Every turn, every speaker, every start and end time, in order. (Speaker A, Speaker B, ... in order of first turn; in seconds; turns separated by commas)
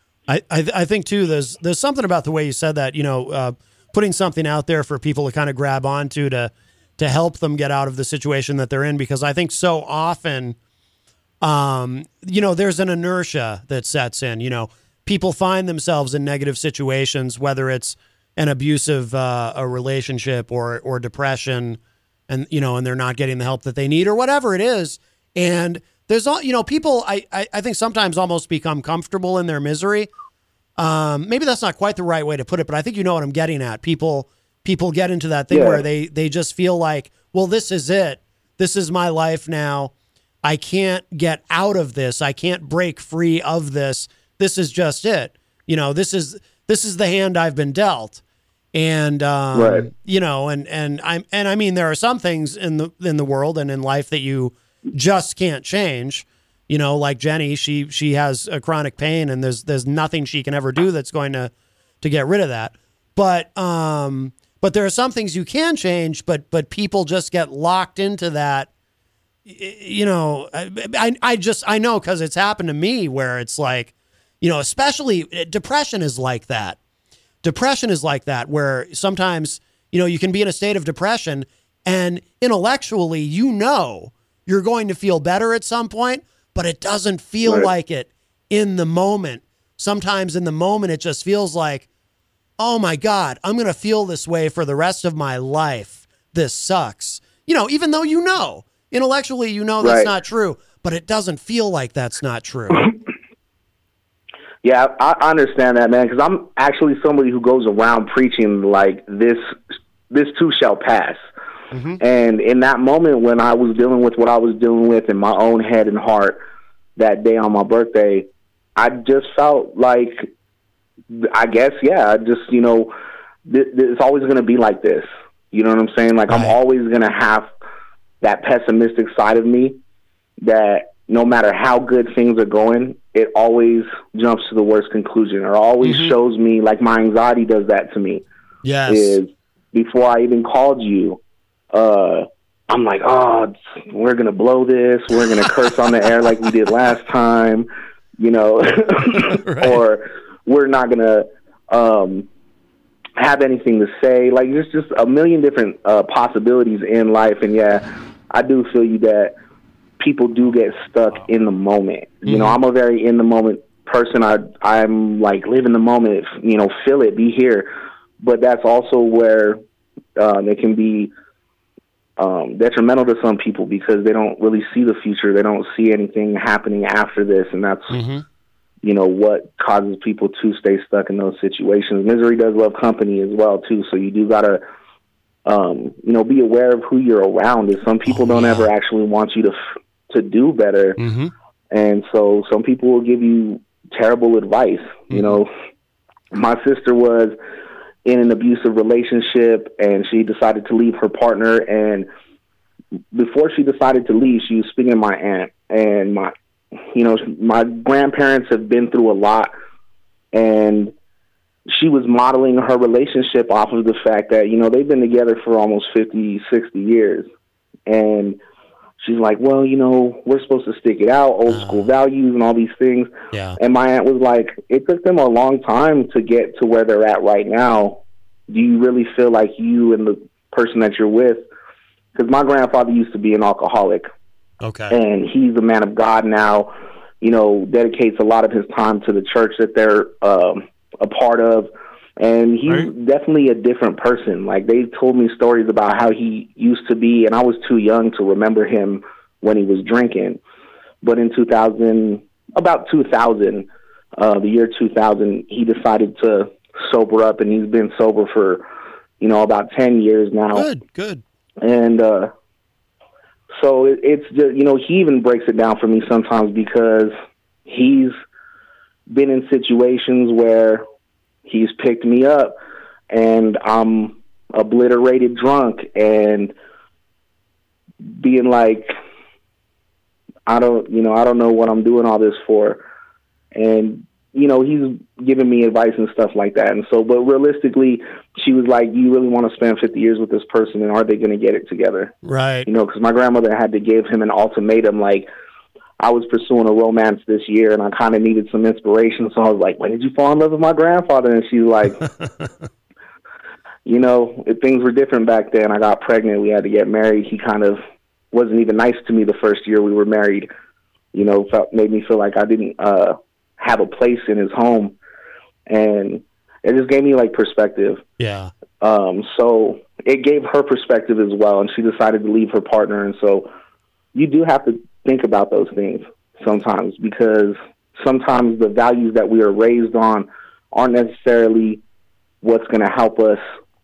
Speaker A: 0.3-10.6, Speaker A: 11.4-30.1, Speaker A: 30.8-39.9, Speaker B: 35.5-35.8, Speaker A: 40.4-48.2, Speaker A: 48.7-68.7, Speaker B: 49.5-49.9, Speaker A: 69.5-76.8, Speaker A: 77.4-91.9, Speaker B: 87.4-87.7, Speaker A: 92.6-102.9, Speaker B: 99.8-100.1, Speaker B: 104.6-109.5, Speaker B: 110.1-111.2, Speaker A: 111.7-112.0, Speaker B: 112.0-116.4, Speaker B: 117.0-120.3, Speaker B: 121.1-122.9, Speaker B: 123.5-127.5, Speaker A: 126.3-126.5, Speaker B: 128.2-129.8, Speaker B: 130.4-138.2, Speaker A: 135.8-136.1, Speaker A: 138.6-139.2, Speaker B: 138.9-141.2, Speaker B: 141.7-152.3, Speaker A: 149.2-149.8, Speaker B: 153.2-159.3, Speaker B: 160.0-169.6, Speaker A: 162.3-162.6, Speaker B: 170.2-171.1, Speaker B: 172.2-178.0, Speaker A: 177.9-178.2, Speaker B: 178.8-184.6, Speaker B: 185.4-189.6, Speaker A: 188.1-188.7, Speaker B: 190.1-191.0, Speaker A: 191.0-191.3, Speaker B: 191.7-195.5, Speaker A: 195.1-195.4, Speaker B: 196.3-197.3, Speaker B: 198.1-202.1, Speaker B: 203.1-206.3, Speaker B: 206.9-209.5, Speaker B: 210.3-210.9, Speaker B: 211.7-217.3, Speaker B: 217.9-218.4, Speaker B: 219.0-231.4, Speaker A: 221.5-221.9, Speaker A: 223.3-223.6, Speaker B: 232.1-234.1, Speaker A: 234.6-234.9, Speaker B: 234.9-250.4, Speaker B: 251.0-258.6, Speaker B: 259.2-260.6, Speaker A: 260.5-261.2, Speaker B: 261.6-262.3, Speaker B: 263.6-267.1, Speaker B: 267.6-268.1, Speaker B: 269.1-270.8, Speaker B: 271.4-272.6, Speaker B: 273.1-276.5, Speaker B: 278.1-278.9, Speaker B: 280.5-282.8, Speaker B: 283.5-292.1, Speaker A: 292.2-292.7, Speaker B: 292.6-295.3, Speaker B: 296.0-302.1, Speaker B: 303.9-310.5, Speaker B: 311.1-314.9, Speaker B: 315.7-318.0, Speaker A: 318.2-318.5, Speaker B: 318.8-323.5, Speaker B: 324.1-331.8, Speaker B: 332.4-333.4